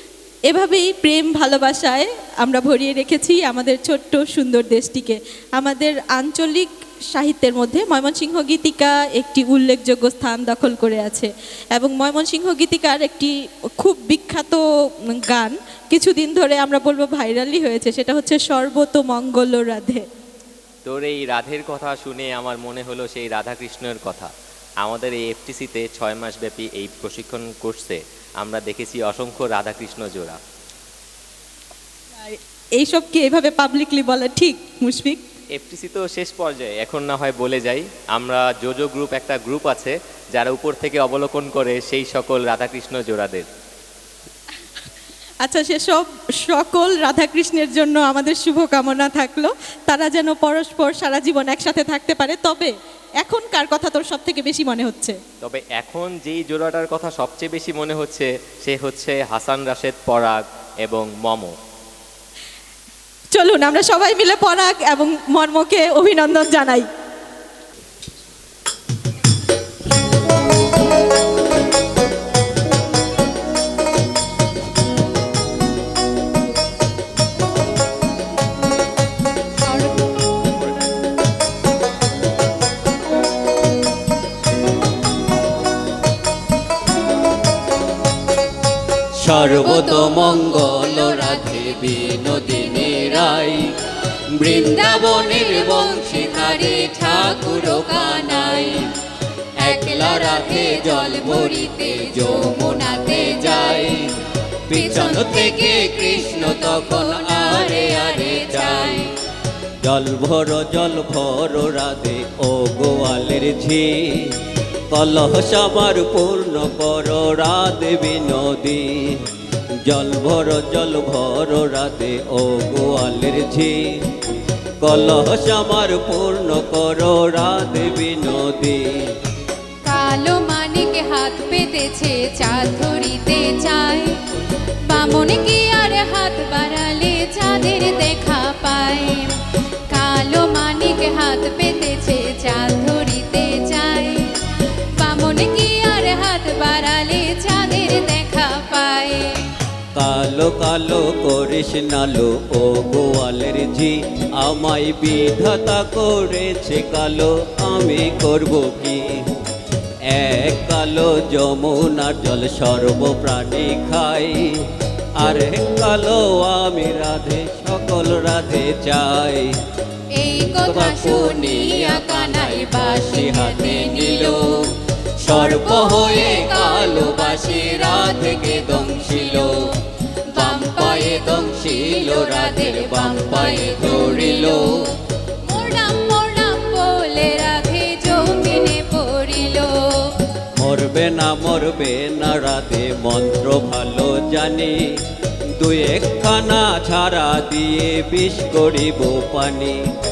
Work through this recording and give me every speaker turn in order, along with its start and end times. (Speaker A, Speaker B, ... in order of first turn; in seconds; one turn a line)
Speaker A: 0.5-14.6
Speaker A: 15.2-20.0
Speaker B: 20.9-24.3
Speaker B: 24.8-30.4
Speaker A: 32.2-35.3
Speaker B: 35.5-43.5
Speaker A: 45.4-55.2
Speaker B: 55.4-61.5
Speaker A: 63.4-66.9
Speaker C: 79.7-80.1
Speaker D: 89.2-93.7
Speaker C: 89.4-93.4
Speaker D: 94.4-98.9
Speaker C: 94.5-98.9
Speaker C: 99.6-104.0
Speaker D: 99.6-104.1
Speaker D: 104.7-109.1
Speaker C: 104.7-109.1
Speaker D: 109.8-119.3
Speaker D: 119.8-124.0
Speaker D: 124.8-129.1
Speaker C: 129.8-134.2
Speaker C: 134.9-149.5
Speaker D: 149.9-159.2
Speaker D: 160.1-164.7
Speaker D: 165.2-169.5
Speaker C: 170.1-174.6
Speaker D: 170.4-174.7
Speaker C: 175.2-179.7
Speaker D: 175.2-179.7
Speaker C: 180.3-184.9
Speaker D: 180.3-184.9
Speaker C: 185.5-190.2
Speaker D: 190.6-195.0
Speaker D: 195.6-199.8